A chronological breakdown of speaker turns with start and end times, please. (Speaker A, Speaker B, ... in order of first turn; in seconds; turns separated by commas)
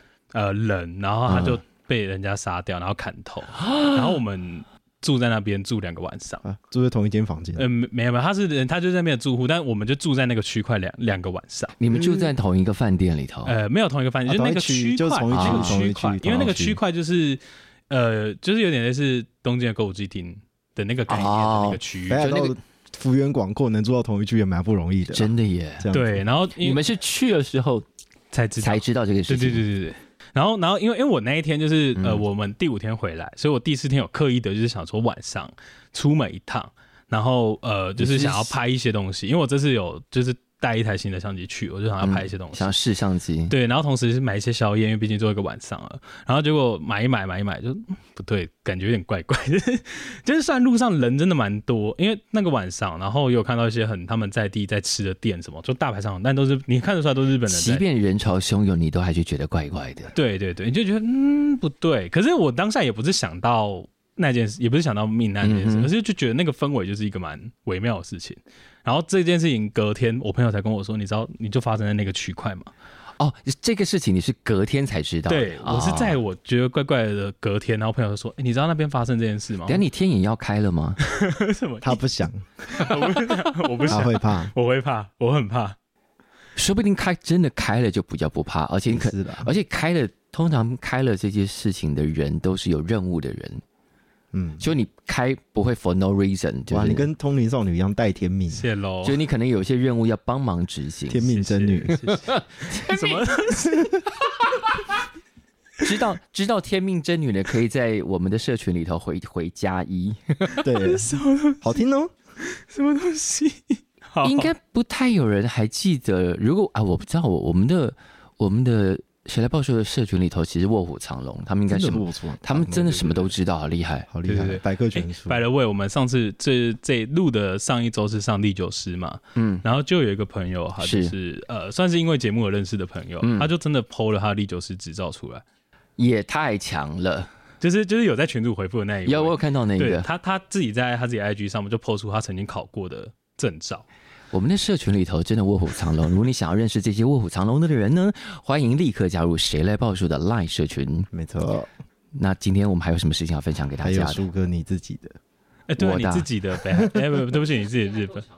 Speaker A: 0.3-6.4, Speaker B: 1.3-1.6, Speaker C: 6.4-7.6, Speaker A: 7.6-11.8, Speaker B: 11.8-13.5, Speaker C: 11.9-12.3, Speaker A: 13.4-22.3, Speaker C: 14.2-16.8, Speaker B: 15.3-15.8, Speaker B: 21.1-22.5, Speaker C: 22.1-25.3, Speaker B: 25.1-25.9, Speaker C: 25.8-26.2, Speaker A: 25.9-26.8, Speaker B: 26.6-27.9, Speaker A: 28.3-42.7, Speaker B: 28.6-29.6, Speaker B: 31.9-32.2, Speaker B: 38.0-38.5, Speaker B: 42.0-43.5, Speaker A: 43.5-57.8, Speaker B: 57.5-60.1, Speaker A: 60.1-72.7, Speaker B: 65.4-65.9, Speaker B: 73.2-76.2, Speaker A: 75.3-79.8, Speaker B: 79.7-81.0, Speaker A: 81.0-82.0, Speaker C: 81.8-82.5, Speaker A: 82.6-85.8, Speaker C: 83.9-84.5, Speaker B: 86.5-93.6, Speaker C: 88.9-89.5, Speaker C: 94.3-94.7, Speaker B: 94.6-97.1, Speaker C: 96.7-98.7, Speaker A: 98.5-99.2, Speaker B: 99.0-101.2, Speaker C: 101.1-102.0, Speaker A: 101.2-104.1, Speaker B: 102.7-103.2, Speaker C: 103.6-103.9, Speaker B: 105.8-110.5, Speaker A: 110.5-111.8, Speaker C: 110.6-112.1, Speaker A: 112.5-114.5, Speaker B: 114.2-124.1, Speaker C: 121.7-123.0, Speaker A: 122.7-123.3, Speaker C: 124.1-125.4, Speaker A: 124.2-135.4, Speaker B: 129.3-129.6, Speaker B: 130.8-131.1, Speaker B: 133.2-133.5, Speaker B: 136.0-137.3, Speaker A: 137.6-143.8, Speaker B: 139.1-140.1, Speaker B: 144.3-151.1, Speaker C: 151.1-151.7, Speaker B: 152.1-154.2, Speaker C: 153.8-155.2, Speaker A: 155.7-158.2, Speaker B: 155.8-156.3, Speaker C: 156.7-157.0